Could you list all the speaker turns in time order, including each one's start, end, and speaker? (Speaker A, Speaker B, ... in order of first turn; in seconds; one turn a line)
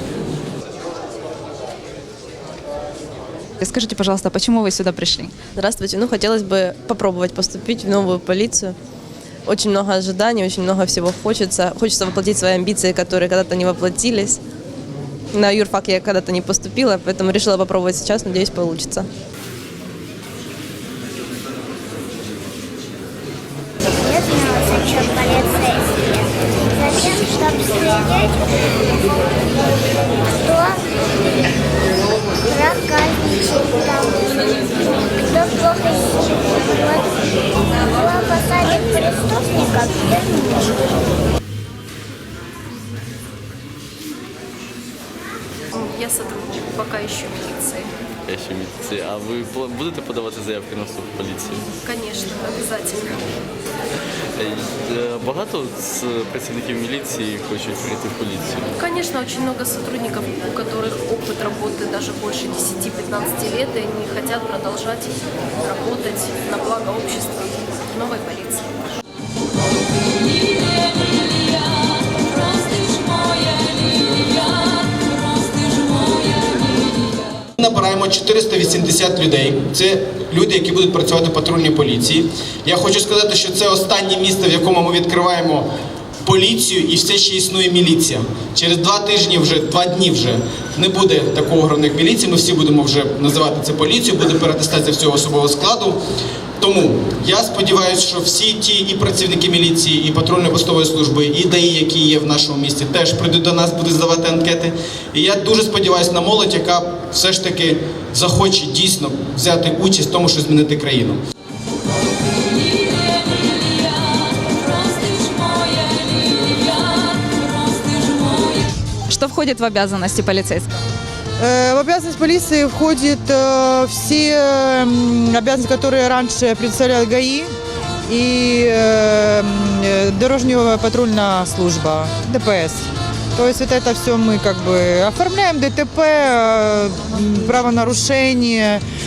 Speaker A: 3.6-5.3
Speaker B: 5.5-8.8
Speaker B: 9.5-14.4
Speaker B: 15.3-19.1
Speaker C: 23.9-26.0
Speaker C: 26.8-28.5
Speaker C: 30.3-30.9
Speaker C: 32.4-34.4
Speaker C: 35.0-37.0
Speaker C: 37.9-40.7
Speaker D: 45.7-47.9
Speaker E: 48.3-51.7
Speaker D: 51.8-53.2
Speaker E: 54.4-58.7
Speaker D: 58.8-68.7
Speaker F: 77.6-85.7
Speaker F: 86.2-96.0
Speaker F: 96.6-111.2
Speaker A: 119.1-120.8
Speaker G: 121.4-127.5
Speaker G: 128.1-138.8